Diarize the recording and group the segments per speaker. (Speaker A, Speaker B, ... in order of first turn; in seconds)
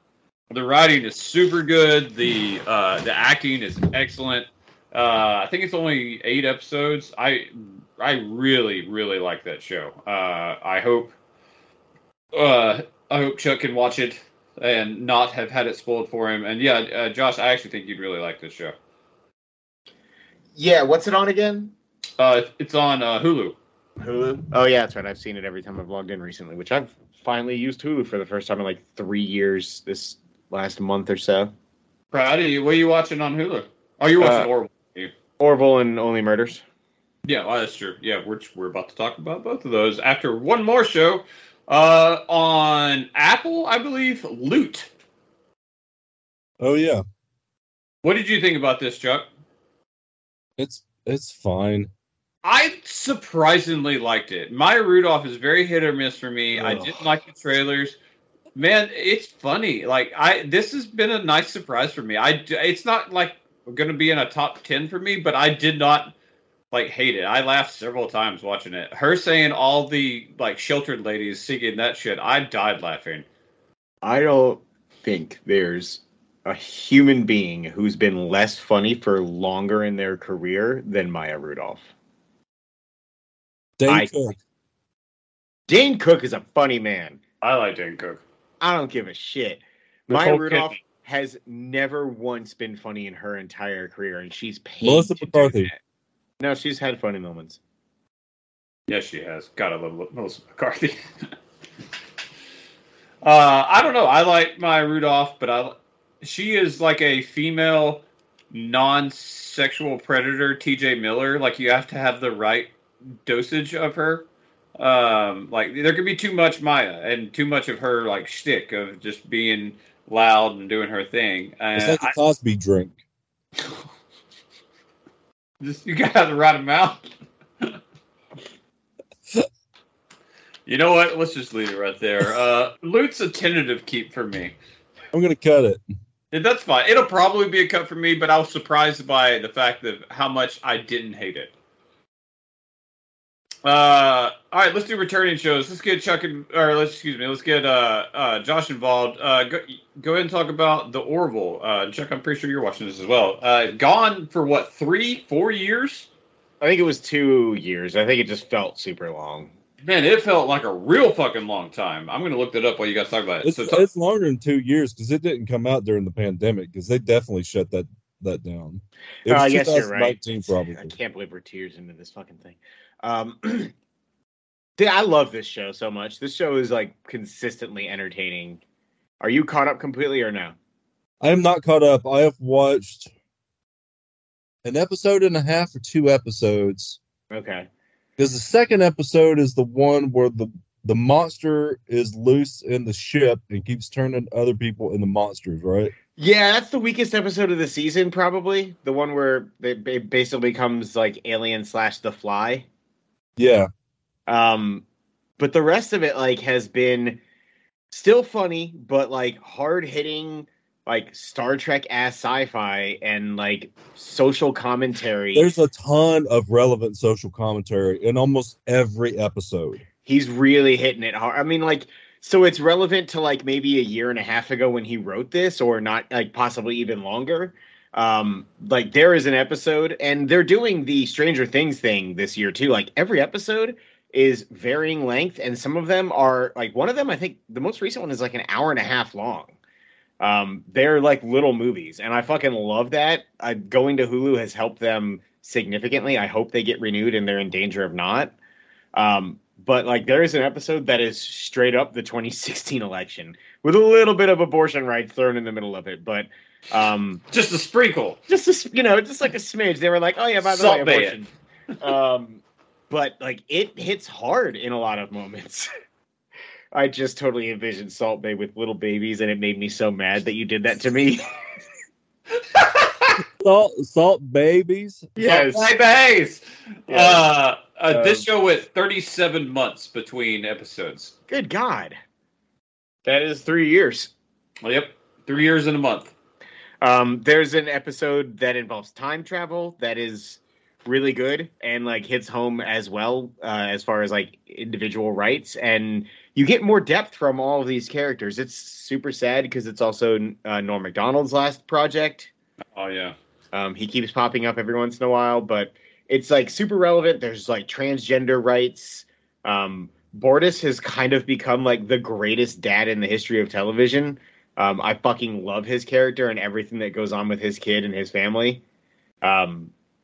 Speaker A: 0.5-11.1, 12.3-18.8, 22.2-23.6, 32.1-35.1, 37.2-44.9, 48.0-49.3, 52.4-58.0, 58.5-66.1, 66.7-73.2, 87.4-88.2, 90.1-90.8, 98.9-101.0, 103.2-112.7, 113.2-114.3, 114.8-122.1, 125.6-127.0, 130.7-134.6, 136.3-141.5, 143.6-156.1, 159.8-163.8, 257.3-258.2, 260.4-261.2, 272.5-273.2, 275.2-281.1, 284.6-286.1, 302.8-303.2
Speaker B: 20.6-21.7, 24.0-31.5, 34.2-34.5, 35.4-36.6, 74.0-81.9, 83.9-84.2, 85.7-87.2, 88.6-95.8, 96.4-97.6, 156.6-159.5, 169.3-173.7, 174.8-178.6, 179.2-180.6, 187.3-187.7, 196.2-202.7, 204.3-204.8, 205.4-207.2, 207.9-215.5, 220.1-239.6, 240.2-248.3, 248.9-257.2, 258.3-261.3, 261.8-265.7, 266.7-271.2, 275.2-275.7, 276.9-277.3, 277.9-278.3, 281.3-282.0, 283.1-284.1, 286.8-302.3, 303.5-318.6, 319.2-319.7
Speaker C: 46.6-47.0, 50.6-51.9, 56.6-57.0, 83.8-84.4, 94.8-95.7, 121.8-123.0, 135.1-135.8, 163.4-170.9, 181.2-183.1, 184.7-187.0, 188.2-195.9, 203.4-203.7, 215.3-219.8, 273.4-275.1